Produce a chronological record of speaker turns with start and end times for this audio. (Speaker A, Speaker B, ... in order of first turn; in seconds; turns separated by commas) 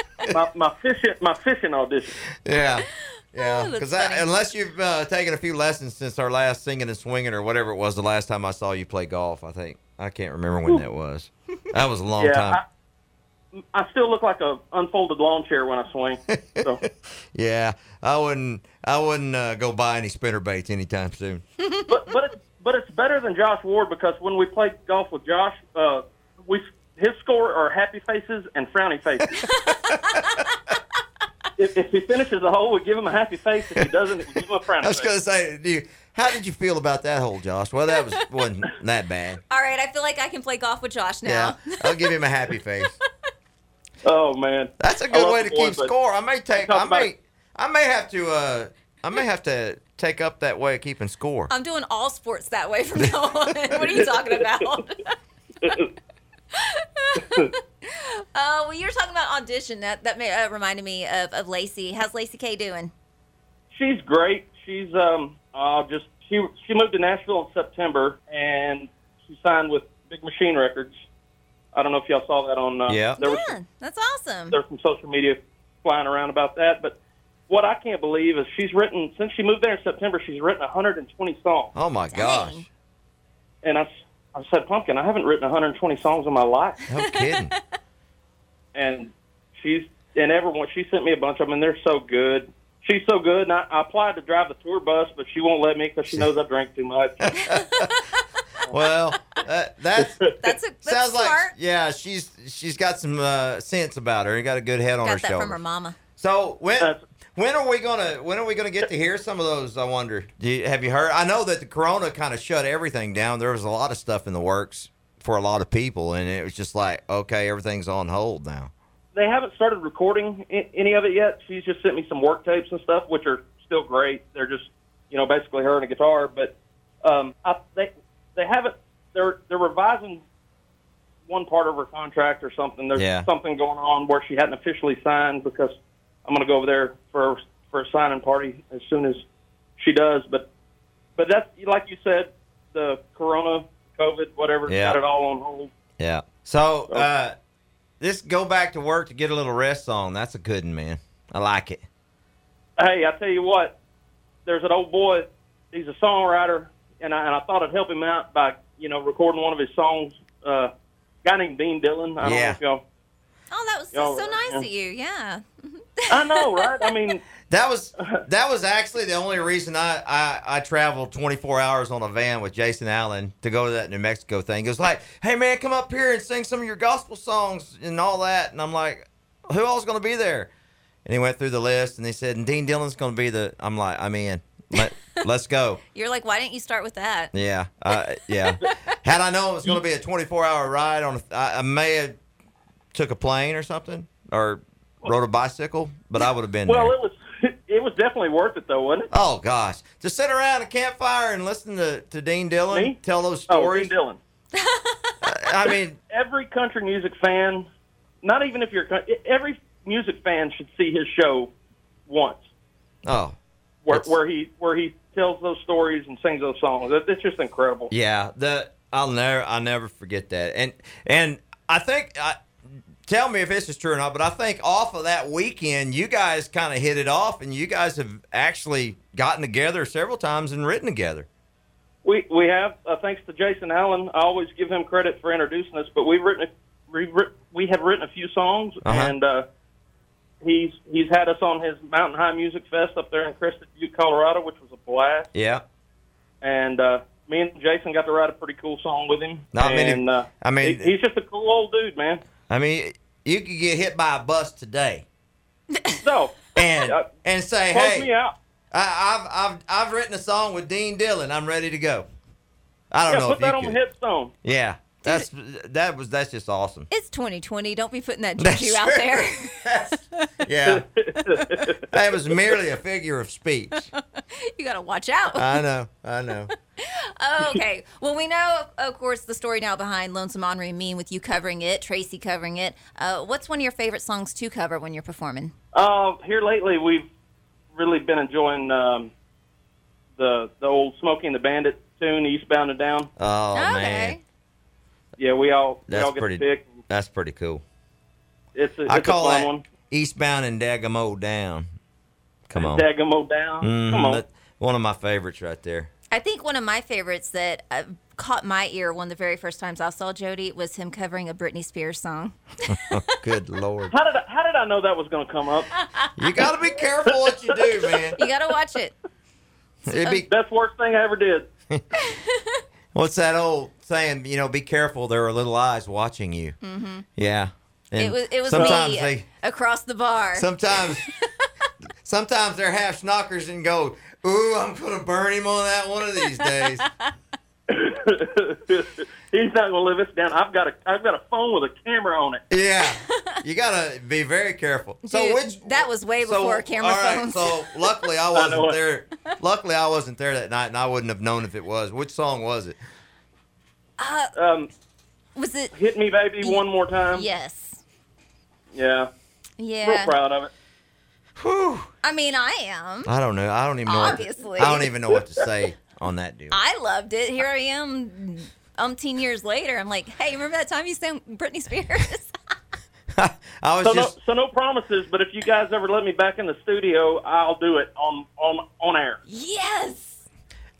Speaker A: 0.3-2.2, Speaker B: 2.4-12.6, Speaker C: 3.4-4.3, Speaker A: 12.2-12.6, Speaker A: 13.5-16.8, Speaker B: 16.3-21.4, Speaker C: 21.6-21.9, Speaker A: 21.9-29.4, Speaker C: 29.4-30.2, Speaker B: 29.7-30.5, Speaker A: 31.6-35.1, Speaker B: 34.8-39.4, Speaker C: 39.5-42.2, Speaker B: 41.2-43.0, Speaker A: 44.0-45.9, Speaker B: 44.8-51.5, Speaker A: 46.5-47.1, Speaker C: 51.5-55.1, Speaker A: 53.8-54.6, Speaker A: 55.6-55.9, Speaker C: 56.5-62.9, Speaker A: 57.1-57.5, Speaker A: 63.7-71.0, Speaker A: 71.7-73.5, Speaker B: 72.9-73.2, Speaker C: 73.2-74.6, Speaker A: 74.5-77.0, Speaker A: 77.5-81.7, Speaker B: 81.7-82.6, Speaker C: 82.1-82.6, Speaker A: 83.6-86.8, Speaker B: 86.9-87.5, Speaker C: 87.0-87.3, Speaker A: 88.7-97.3, Speaker B: 97.2-98.0, Speaker C: 97.4-98.2, Speaker B: 98.7-100.3, Speaker A: 100.0-100.3, Speaker C: 100.4-101.5, Speaker B: 100.8-105.6, Speaker C: 105.0-106.0, Speaker B: 106.2-118.7, Speaker A: 119.1-130.2, Speaker A: 131.2-139.2, Speaker B: 132.9-133.3, Speaker A: 139.8-140.5, Speaker A: 141.2-145.7, Speaker B: 144.7-145.0, Speaker B: 146.0-147.3, Speaker B: 148.0-151.8, Speaker A: 152.8-153.8, Speaker A: 154.4-160.7, Speaker A: 161.2-162.8, Speaker B: 162.2-162.6, Speaker C: 163.5-166.9, Speaker A: 163.9-164.7, Speaker A: 166.1-167.2, Speaker B: 167.5-180.5, Speaker B: 181.1-185.8, Speaker C: 185.9-187.3, Speaker B: 187.3-192.2, Speaker C: 188.6-188.9, Speaker B: 192.9-196.9, Speaker A: 196.7-199.1, Speaker B: 199.1-203.9, Speaker A: 202.7-203.0, Speaker A: 203.5-204.2, Speaker C: 204.5-205.2, Speaker B: 205.2-206.0, Speaker A: 206.1-207.7, Speaker A: 208.2-211.5, Speaker A: 212.1-212.4, Speaker B: 213.0-213.4, Speaker A: 213.8-217.9, Speaker B: 217.9-222.4, Speaker B: 223.1-231.3, Speaker A: 232.0-239.4, Speaker B: 238.8-239.1, Speaker A: 240.4-245.3, Speaker B: 245.3-245.6, Speaker A: 246.4-252.2, Speaker B: 249.5-250.9, Speaker B: 252.5-255.1, Speaker C: 255.7-256.0, Speaker A: 256.0-257.1, Speaker B: 256.5-258.1, Speaker A: 257.7-258.3, Speaker B: 258.7-262.1, Speaker B: 262.9-263.8, Speaker A: 263.1-264.3, Speaker B: 264.4-266.9, Speaker C: 266.9-270.4, Speaker B: 268.4-270.9, Speaker A: 270.7-271.9, Speaker C: 271.4-271.7, Speaker B: 271.9-273.9, Speaker C: 274.0-275.6, Speaker B: 275.4-276.5, Speaker C: 276.8-285.5, Speaker A: 285.7-287.1, Speaker A: 287.7-289.1, Speaker A: 290.2-293.1, Speaker B: 293.2-294.2, Speaker C: 293.5-294.2, Speaker A: 295.2-296.8, Speaker B: 295.9-297.6, Speaker A: 298.5-299.6, Speaker B: 298.9-301.7, Speaker B: 302.5-302.8, Speaker A: 302.6-304.2, Speaker B: 303.6-305.9, Speaker C: 306.1-313.0, Speaker B: 312.7-313.9, Speaker A: 313.9-315.7, Speaker C: 315.8-316.4, Speaker B: 316.2-318.2, Speaker A: 317.1-318.2, Speaker C: 318.2-319.0, Speaker B: 319.9-320.3, Speaker A: 320.2-321.5, Speaker C: 321.9-322.6, Speaker B: 322.9-326.6, Speaker C: 326.6-327.1, Speaker B: 327.2-329.2, Speaker C: 328.0-331.5, Speaker A: 328.5-328.8, Speaker B: 330.3-331.0, Speaker B: 332.0-336.9, Speaker C: 336.4-337.1, Speaker A: 337.7-342.4, Speaker B: 342.5-352.8, Speaker C: 342.8-343.4, Speaker C: 345.0-347.8, Speaker A: 348.3-348.8, Speaker C: 354.0-354.3, Speaker A: 354.3-354.7, Speaker C: 355.4-355.7, Speaker A: 355.7-357.2, Speaker C: 356.4-357.8, Speaker A: 358.7-359.1, Speaker C: 359.6-360.1, Speaker A: 359.8-360.5, Speaker B: 361.4-361.9, Speaker C: 362.0-363.1, Speaker B: 363.1-366.6, Speaker C: 363.9-364.9, Speaker A: 365.1-365.4, Speaker C: 366.5-372.3, Speaker B: 373.1-374.1, Speaker A: 373.8-379.2, Speaker C: 379.3-380.2